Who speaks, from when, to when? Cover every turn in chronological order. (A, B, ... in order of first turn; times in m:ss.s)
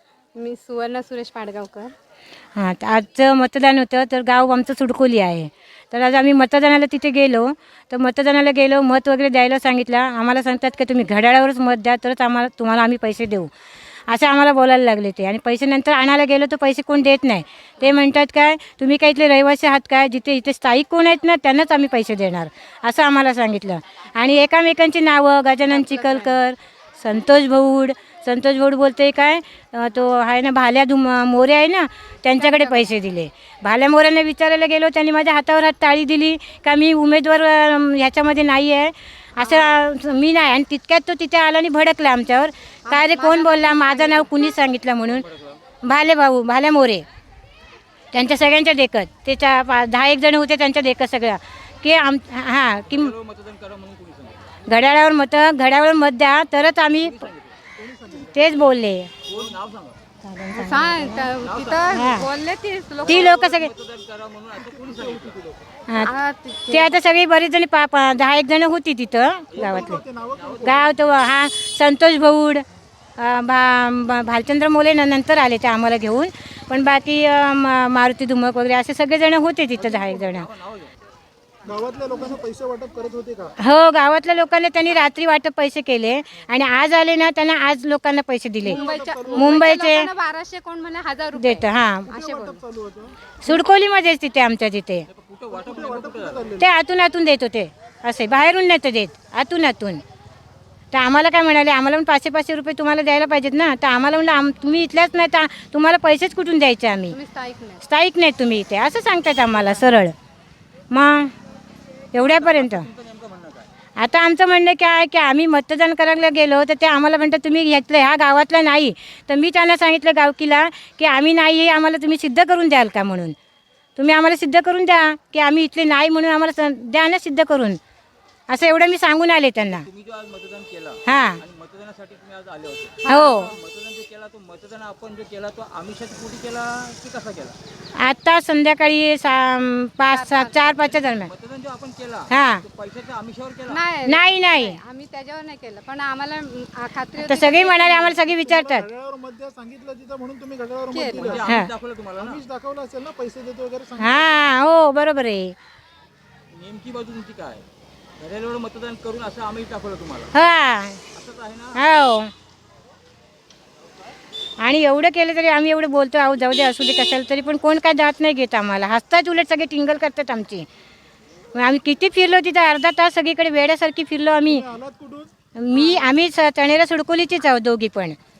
0:00.3-0:01.9 A
0:02.6-0:13.5 B
0:14.1-0:45.2 B
0:25.6-0:26.4 A
0:32.4-0:32.9 A
0:39.4-0:39.8 A
0:42.8-0:44.3 A
0:45.0-0:45.6 C
0:45.8-0:47.0 B
0:48.1-0:53.1 B
0:52.9-0:54.6 C
0:54.6-0:57.2 B
0:57.0-0:57.5 C
0:57.8-0:58.3 D
0:58.2-0:59.1 B
0:59.3-1:00.0 C
1:00.2-1:01.3 B
1:00.5-1:03.4 A
1:01.4-1:02.0 C
1:01.9-1:02.3 B
1:03.0-1:05.4 C
1:03.0-1:03.7 B
1:04.6-1:05.6 D
1:06.0-1:07.0 A
1:06.7-1:10.0 B
1:09.5-1:10.8 D
1:10.3-1:10.9 C
1:10.6-1:12.6 B
1:13.2-1:20.5 B
1:19.8-1:20.9 C
1:21.6-1:23.5 D
1:23.6-1:30.1 B
1:28.6-1:32.6 A
1:28.6-1:29.6 D
1:31.4-1:32.1 B
1:32.1-1:33.1 D
1:33.4-1:35.1 B
1:35.1-1:36.6 C
1:35.5-1:36.7 D
1:36.6-1:40.0 B
1:40.9-1:47.2 B
1:47.1-1:47.8 A
1:47.8-1:50.1 B
1:50.9-1:51.3 B
1:52.1-1:52.9 B
1:52.2-1:53.7 C
1:54.0-2:03.3 B
2:04.0-2:07.8 B
2:08.5-2:09.8 B
2:09.8-2:17.6 C
2:11.0-2:11.4 B
2:13.0-2:13.5 B
2:13.0-2:13.6 A
2:18.0-2:21.3 B
2:20.1-2:20.8 A
2:21.0-2:23.8 C
2:22.3-2:22.6 B
2:23.7-2:28.3 A
2:24.0-2:24.8 B
2:27.2-2:28.9 B
2:28.5-2:31.6 D
2:30.9-2:31.4 A
2:31.1-2:32.4 C
2:31.4-2:31.7 B
2:32.2-2:34.4 D
2:34.0-2:35.5 B
2:36.5-2:37.6 C
2:38.2-2:40.5 C
2:40.3-2:41.0 B
2:41.1-2:41.8 C
2:41.8-2:42.3 B
2:44.6-2:50.6 B
2:51.5-2:54.7 B
2:54.5-2:55.3 D
2:55.5-2:58.2 B
2:55.7-2:56.1 A